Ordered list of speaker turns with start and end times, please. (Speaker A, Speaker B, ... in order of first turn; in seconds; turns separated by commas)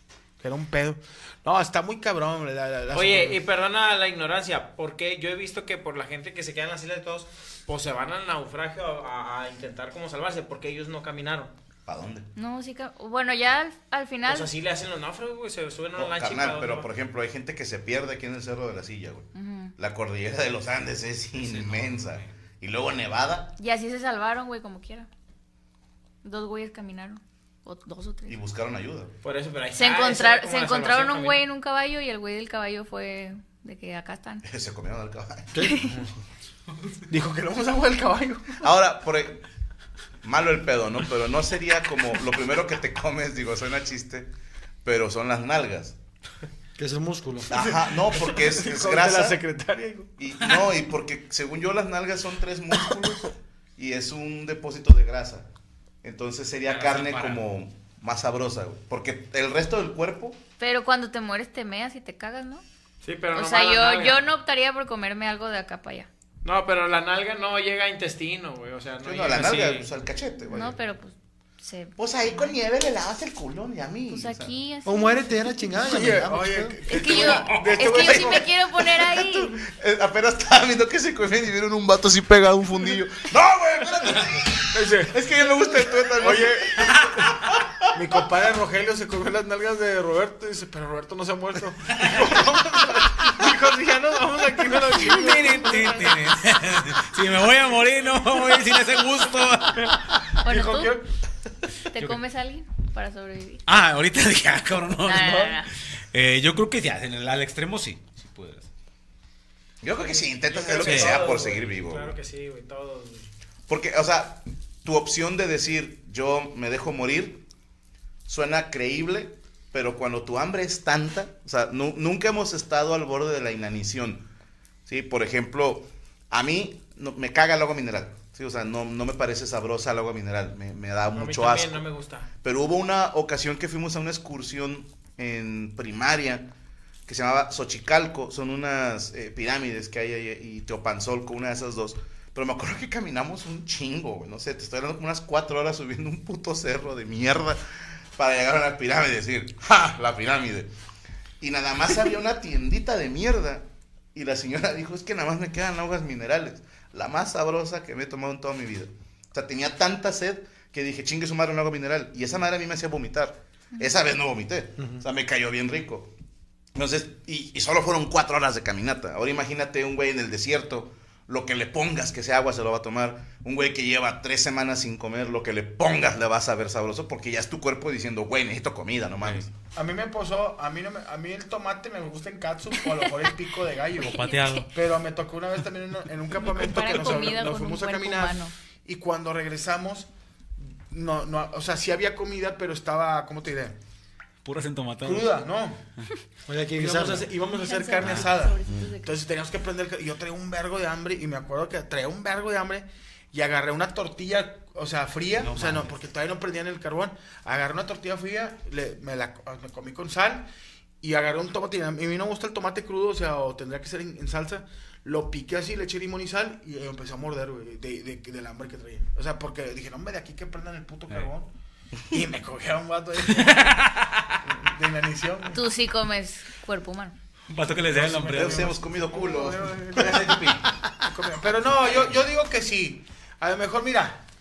Speaker A: 0.4-3.4, Speaker B: 2.9-11.5, Speaker C: 11.9-12.3, Speaker D: 12.4-14.5, Speaker B: 14.3-16.9, Speaker C: 16.0-23.5, Speaker D: 19.4-19.7, Speaker E: 21.3-22.4, Speaker D: 23.6-25.1, Speaker D: 26.2-28.4, Speaker C: 28.3-29.1, Speaker B: 29.2-31.4, Speaker D: 29.8-34.4, Speaker C: 34.5-35.9, Speaker D: 35.6-35.9, Speaker A: 37.1-38.6, Speaker C: 38.6-39.4, Speaker C: 40.2-44.3, Speaker C: 44.8-46.0, Speaker F: 46.8-47.5, Speaker C: 47.5-49.4, Speaker A: 47.5-50.1, Speaker C: 50.2-55.5, Speaker E: 50.4-50.7, Speaker C: 56.0-60.4, Speaker E: 56.6-57.5, Speaker D: 60.6-62.6, Speaker B: 63.0-64.3, Speaker D: 63.4-66.1, Speaker B: 66.4-69.9, Speaker C: 69.0-70.8, Speaker D: 70.5-72.5, Speaker C: 72.0-74.5, Speaker D: 74.1-75.3, Speaker F: 74.8-76.8, Speaker A: 75.8-78.5, Speaker D: 76.9-79.5, Speaker C: 77.0-88.0, Speaker A: 84.7-85.1, Speaker A: 86.2-87.1, Speaker A: 87.9-96.2, Speaker E: 94.9-100.0, Speaker A: 99.8-101.1, Speaker D: 100.4-100.9, Speaker D: 101.9-103.6, Speaker E: 102.0-102.2, Speaker E: 103.7-105.6, Speaker D: 105.0-105.7, Speaker E: 106.1-108.7, Speaker C: 109.8-112.2, Speaker B: 110.0-113.3, Speaker E: 110.8-111.3, Speaker C: 113.7-117.4, Speaker C: 118.3-124.2, Speaker C: 124.9-131.8, Speaker B: 131.1-132.3, Speaker C: 132.4-136.5, Speaker C: 137.1-147.6, Speaker C: 148.2-150.7, Speaker C: 151.4-166.1, Speaker C: 166.8-179.5, Speaker E: 179.2-179.5, Speaker A: 179.8-190.1, Speaker E: 184.0-184.7, Speaker D: 184.0-184.7, Speaker D: 186.3-188.5, Speaker A: 190.6-193.8, Speaker E: 194.4-195.4, Speaker A: 195.0-195.8, Speaker F: 196.5-197.3, Speaker A: 196.8-210.5, Speaker D: 197.5-199.2, Speaker E: 198.0-198.3, Speaker E: 205.4-206.0, Speaker A: 211.0-221.5, Speaker A: 222.1-223.8, Speaker E: 223.3-224.4, Speaker A: 224.5-225.6, Speaker D: 225.5-227.2, Speaker E: 227.5-229.0, Speaker A: 227.9-230.4, Speaker C: 228.3-230.6, Speaker E: 230.0-230.5, Speaker A: 231.0-234.2